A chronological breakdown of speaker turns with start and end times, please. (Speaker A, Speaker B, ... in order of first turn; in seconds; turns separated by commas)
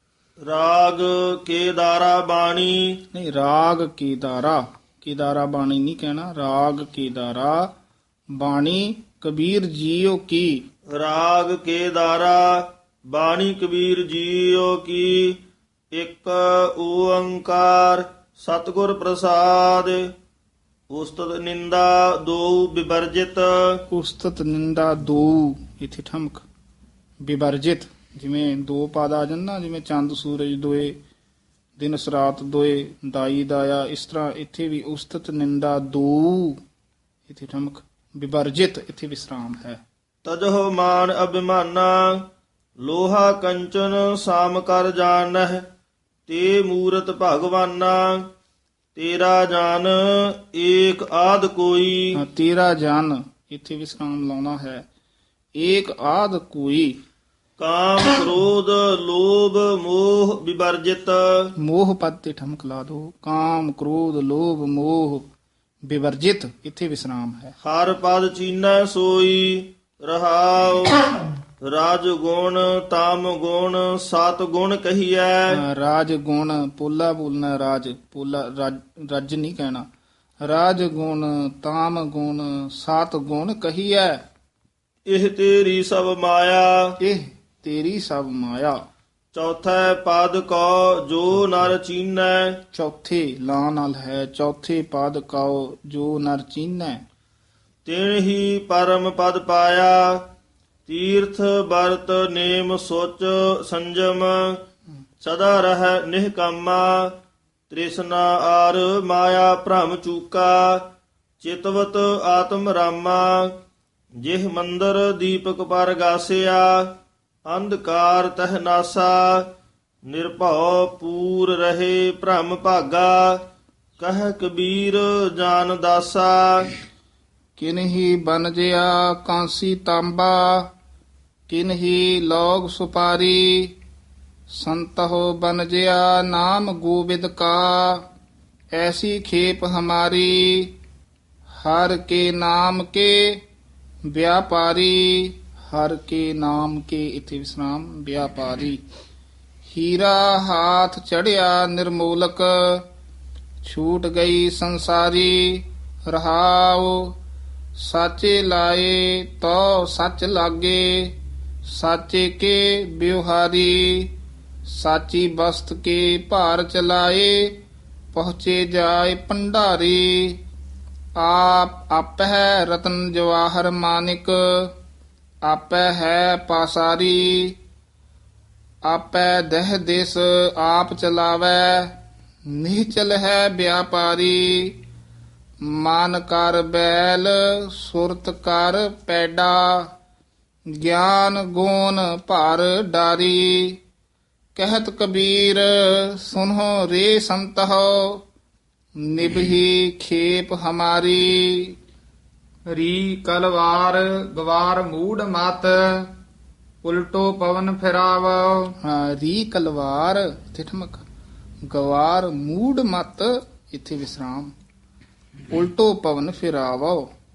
Speaker A: 0.5-2.9, Speaker B: 3.1-7.7, Speaker B: 8.3-10.6, Speaker A: 10.9-15.4, Speaker A: 15.9-20.0, Speaker A: 20.9-23.5, Speaker B: 23.9-26.4, Speaker B: 27.2-31.0, Speaker B: 31.8-36.6, Speaker B: 37.3-39.8, Speaker A: 40.2-42.1, Speaker A: 42.8-45.6, Speaker A: 46.3-48.2, Speaker A: 49.0-52.1, Speaker B: 52.1-54.9, Speaker B: 55.5-57.0, Speaker A: 57.6-61.2, Speaker B: 61.6-65.3, Speaker B: 65.8-67.5, Speaker A: 67.6-71.0, Speaker A: 71.7-75.5, Speaker B: 75.5-79.9, Speaker B: 80.4-84.2, Speaker A: 85.1-86.9, Speaker B: 87.0-88.8, Speaker A: 89.3-92.5, Speaker B: 92.7-97.0, Speaker A: 97.8-100.2, Speaker A: 100.9-104.5, Speaker A: 105.2-107.1, Speaker A: 107.7-110.8, Speaker A: 111.4-113.5, Speaker A: 114.2-116.8, Speaker A: 117.5-119.4, Speaker A: 120.1-123.4, Speaker A: 124.0-126.7, Speaker B: 127.6-130.7, Speaker B: 131.5-133.7, Speaker B: 134.5-138.0, Speaker B: 138.7-140.7, Speaker B: 141.6-143.4, Speaker B: 144.1-148.8, Speaker B: 149.7-152.8, Speaker B: 153.6-157.1, Speaker B: 157.8-164.1, Speaker B: 164.7-167.6, Speaker B: 168.1-170.4, Speaker B: 171.2-174.7, Speaker B: 175.4-177.6, Speaker B: 178.8-184.8, Speaker B: 185.6-189.9, Speaker B: 190.7-193.8, Speaker B: 194.6-198.2, Speaker B: 199.0-201.8, Speaker C: 202.7-206.1, Speaker C: 206.8-208.7, Speaker B: 208.8-211.0, Speaker B: 211.7-214.5, Speaker B: 215.5-217.1